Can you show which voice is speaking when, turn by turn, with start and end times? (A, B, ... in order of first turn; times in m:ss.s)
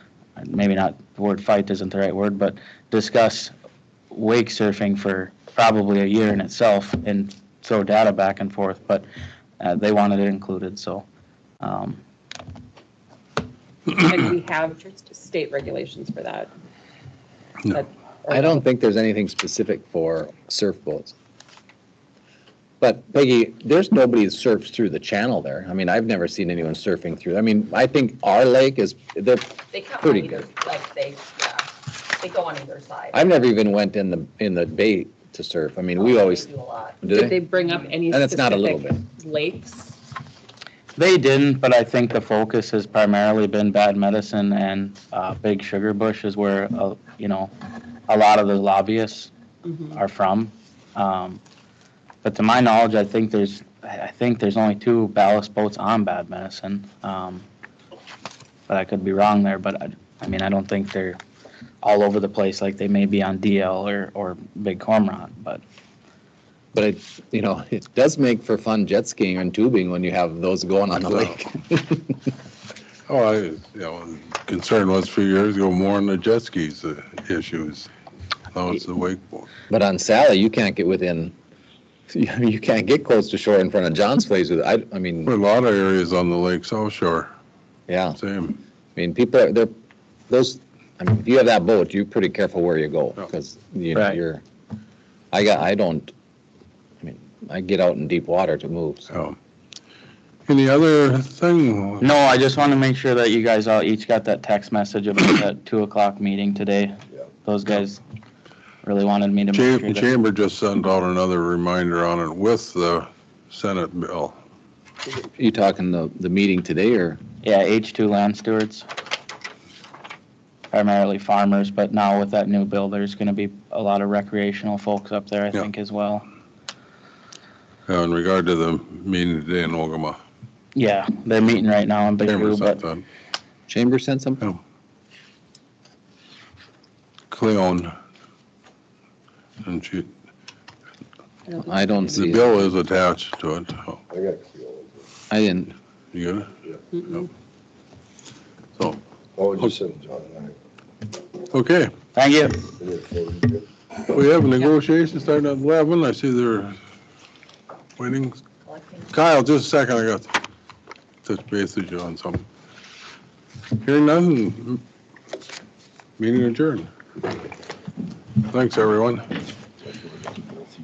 0:00.4-0:03.5 A
0:04.1-0:09.0 A
0:09.6-0:11.0 A
0:11.6-0:12.0 A
0:13.9-0:16.5 B
0:17.6-0:18.6 B
0:18.3-0:21.1 C
0:22.8-0:30.4 C
0:29.7-0:33.3 D
0:33.1-0:36.4 C
0:35.9-0:37.9 D
0:37.0-0:37.4 C
0:37.1-0:39.9 B
0:38.1-0:39.0 C
0:41.0-0:47.5 A
0:48.1-0:49.3 A
0:49.9-0:51.4 A
0:52.2-0:57.5 A
0:58.7-1:01.2 A
1:01.8-1:05.6 A
1:06.7-1:12.2 C
1:11.0-1:11.3 E
1:13.1-1:17.9 E
1:18.5-1:19.5 E
1:19.7-1:21.3 C
1:22.1-1:25.3 C
1:25.2-1:27.3 E
1:27.9-1:28.2 C
1:28.2-1:28.6 E
1:29.0-1:29.7 C
1:30.3-1:34.4 C
1:33.9-1:34.2 A
1:35.3-1:36.1 C
1:37.0-1:39.1 C
1:39.1-1:39.4 E
1:40.5-1:42.2 E
1:42.0-1:48.0 A
1:48.8-1:50.1 A
1:49.5-1:54.4 E
1:55.4-1:57.2 C
1:57.4-1:58.8 A
2:00.7-2:06.2 A
2:07.9-2:10.2 E
2:10.7-2:12.8 A
2:12.2-2:13.0 E
2:13.7-2:14.4 C
2:17.3-2:17.9 E
2:19.6-2:20.1 E
2:21.5-2:22.3 B
2:21.6-2:22.7 C
2:22.1-2:24.0 E
2:24.1-2:25.0 F
2:25.3-2:25.7 C
2:26.1-2:26.5 E
2:26.9-2:27.2 B
2:29.4-2:30.6 F
2:31.5-2:31.9 E
2:32.1-2:32.7 A
2:32.8-2:33.6 F
2:34.0-2:36.8 E
2:38.0-2:38.4 E
2:38.7-2:39.0 D
2:39.1-2:40.4 E
2:41.2-2:42.4 E
2:43.8-2:44.8 E
2:46.2-2:46.9 E
2:48.4-2:49.3 E